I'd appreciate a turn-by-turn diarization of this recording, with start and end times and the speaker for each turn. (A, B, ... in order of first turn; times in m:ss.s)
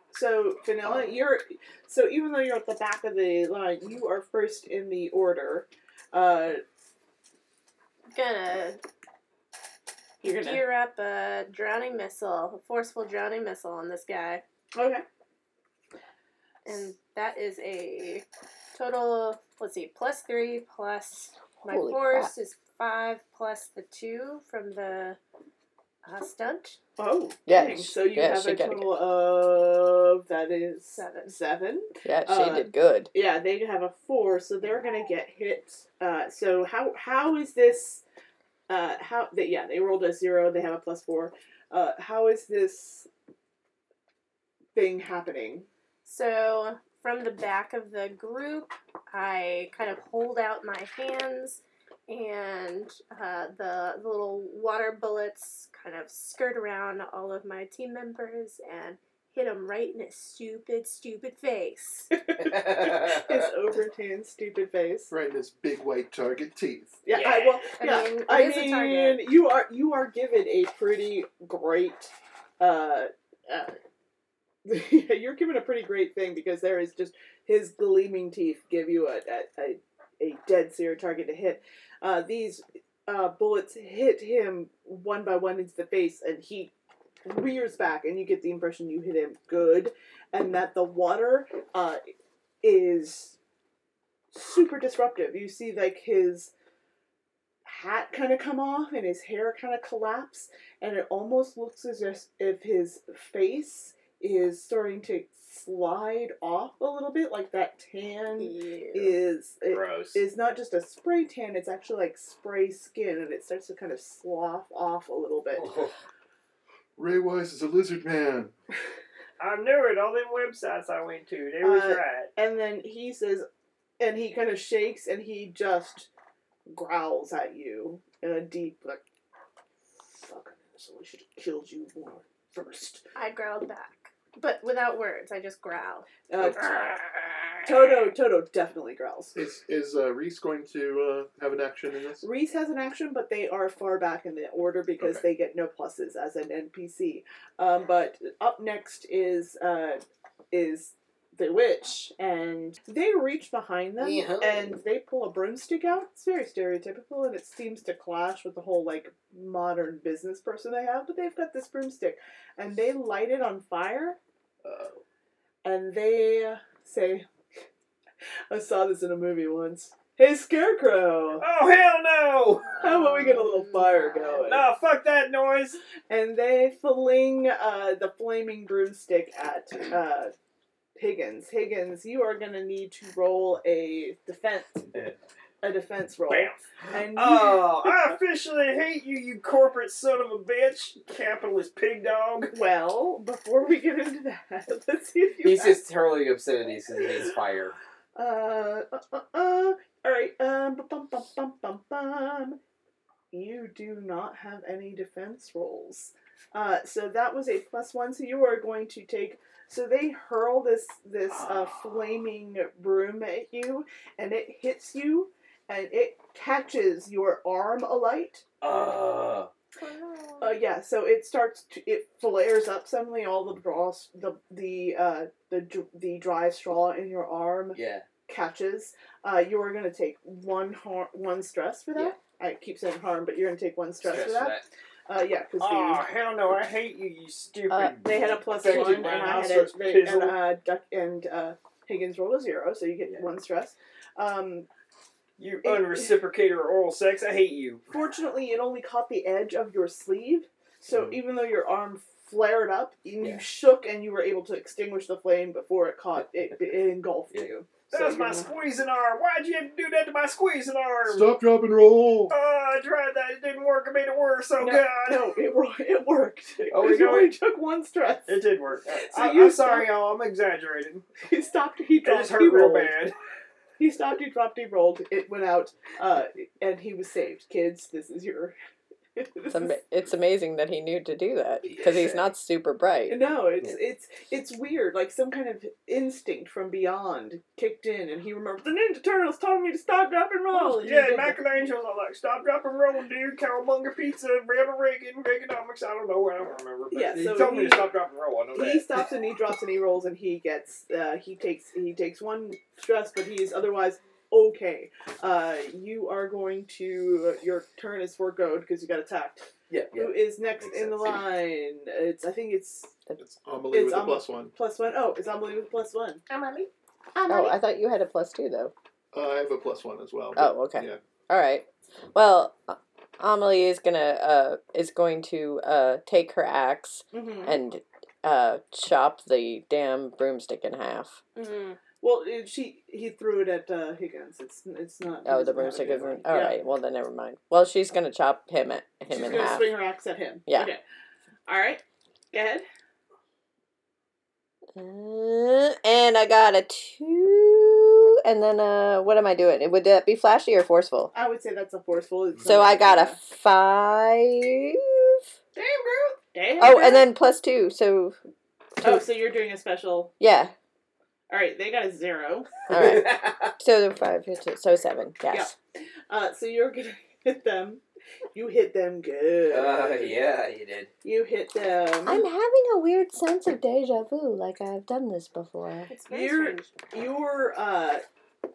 0:00.1-0:06.6 A
0:00.8-0:01.2 B
0:08.1-0:08.8 C
0:10.2-0:14.4 C
0:14.7-0:15.0 A
0:16.6-0:25.2 C
0:21.7-0:22.3 D
0:26.0-0:26.8 C
0:27.0-0:38.0 A
0:27.5-0:28.9 D
0:31.0-0:31.3 C
0:32.0-0:33.1 D
0:38.7-0:43.1 A
0:44.7-0:45.7 A
0:46.0-1:02.1 C
1:02.2-1:05.1 A
1:02.5-1:03.4 B
1:05.1-1:07.0 E
1:07.0-1:13.8 A
1:07.1-1:07.6 B
1:07.8-1:09.3 C
1:14.6-1:26.7 A
1:27.2-1:32.0 A
1:32.6-1:33.4 A
1:34.3-1:36.5 A
1:37.6-1:55.7 A
1:48.4-1:49.2 C
1:49.7-1:50.2 B
1:55.6-1:55.9 B
1:57.0-1:58.5 E
1:59.4-2:02.3 F
2:01.6-2:03.5 A
2:04.0-2:06.1 A
2:06.7-2:09.0 A
2:10.0-2:13.0 A
2:13.1-2:16.0 C
2:16.3-2:16.7 A
2:17.6-2:19.4 A
2:19.3-2:22.2 E
2:22.2-2:44.2 A
2:34.0-2:34.7 B
2:45.6-2:47.3 A
2:48.5-2:51.4 A
2:51.4-2:52.8 F
2:52.8-2:54.7 A
2:52.8-2:54.3 C
2:54.4-2:55.8 F
2:56.1-3:00.3 A
3:01.0-3:04.9 A
3:05.6-3:08.2 A
3:06.3-3:12.5 F
3:12.5-3:15.8 A
3:15.4-3:17.8 B
3:18.2-3:22.6 A
3:23.3-3:38.4 A
3:38.6-3:39.5 B
3:39.8-3:40.5 C
3:40.4-3:56.1 A
3:47.7-3:48.0 B
3:54.0-3:54.7 B
3:55.6-4:00.4 F
3:57.7-3:58.0 D
3:58.0-4:04.7 A
4:03.0-4:03.3 B
4:05.4-4:07.8 F
4:05.6-4:06.2 A
4:07.9-4:18.5 A
4:10.9-4:11.2 B
4:13.2-4:13.4 B
4:17.9-4:21.4 F
4:21.0-4:22.3 E
4:22.3-4:25.3 F
4:24.6-4:28.5 A
4:26.7-4:27.4 F
4:28.3-4:31.1 F
4:29.0-4:30.0 A
4:31.2-4:33.0 A
4:32.0-4:33.1 F
4:33.8-4:38.6 A
4:39.2-4:39.8 A
4:39.5-4:43.2 D
4:41.6-4:42.3 B
4:43.1-4:51.4 A
4:50.5-4:59.0 F
4:56.9-4:58.0 A
4:58.5-5:13.0 A
5:09.7-5:11.3 B
5:13.2-5:14.5 E
5:13.7-5:16.2 A
5:16.3-5:16.7 C
5:17.3-5:18.7 D
5:19.1-5:21.0 E
5:20.4-5:31.2 D
5:27.1-5:27.6 A
5:31.4-5:31.8 C
5:32.0-5:36.6 A
5:35.2-5:39.8 D
5:39.1-5:40.8 A
5:41.5-5:42.6 A
5:44.8-5:51.1 D
5:51.1-5:53.2 A
5:52.4-5:55.2 D
5:55.6-5:56.0 F
5:56.3-5:57.1 A
5:56.6-5:58.2 D
5:58.8-5:59.0 D
5:58.8-6:00.1 A
6:00.2-6:00.5 D
6:01.3-6:02.5 A
6:02.7-6:05.5 D
6:02.7-6:03.5 B
6:05.3-6:05.6 A
6:06.1-6:07.8 A
6:08.3-6:10.2 A
6:09.5-6:10.9 B
6:11.0-6:12.3 A
6:12.0-6:15.9 D
6:15.9-6:16.8 C
6:16.0-6:18.0 A